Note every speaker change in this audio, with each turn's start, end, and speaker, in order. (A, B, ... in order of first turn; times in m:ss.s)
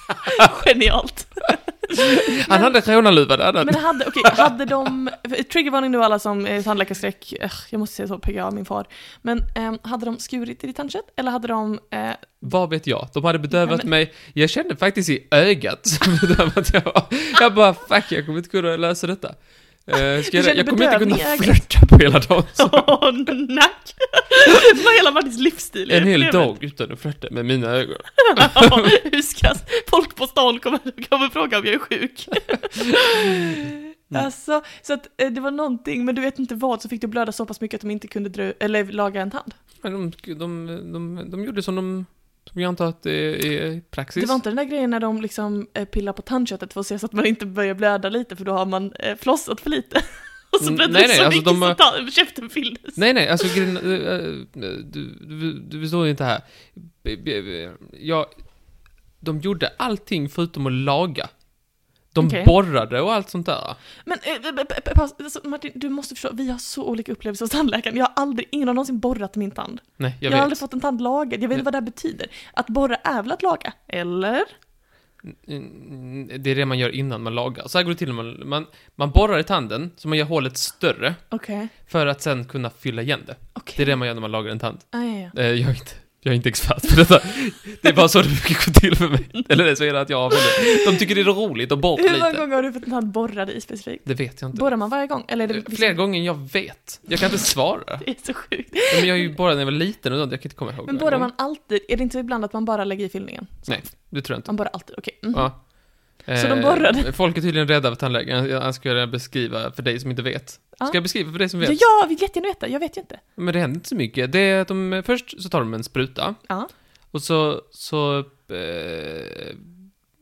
0:00.3-0:02.8 A
0:01.9-0:04.5 B
0:03.6-0:12.4 A
0:12.4-0:22.9 B
0:13.5-0:13.9 A
0:20.2-0:21.8 A
0:22.6-0:26.6 A
0:25.9-0:28.8 B
0:28.2-0:39.6 A
0:39.8-0:44.4 B
0:44.2-0:53.6 A
0:50.6-0:51.8 B
0:53.0-1:01.4 B
1:02.1-1:03.8 B
1:02.2-1:02.5 A
1:04.0-1:14.5 A
1:10.0-1:10.7 B
1:15.2-1:21.2 B
1:21.3-1:21.7 A
1:21.8-1:32.4 B
1:23.6-1:24.0 A
1:24.9-1:25.3 A
1:30.4-1:30.7 A
1:32.0-1:36.4 A
1:34.1-1:41.3 B
1:37.1-1:39.3 A
1:40.9-1:47.1 A
1:43.7-1:51.8 B
1:50.8-1:53.2 A
1:53.4-1:56.5 B
1:57.1-1:59.7 B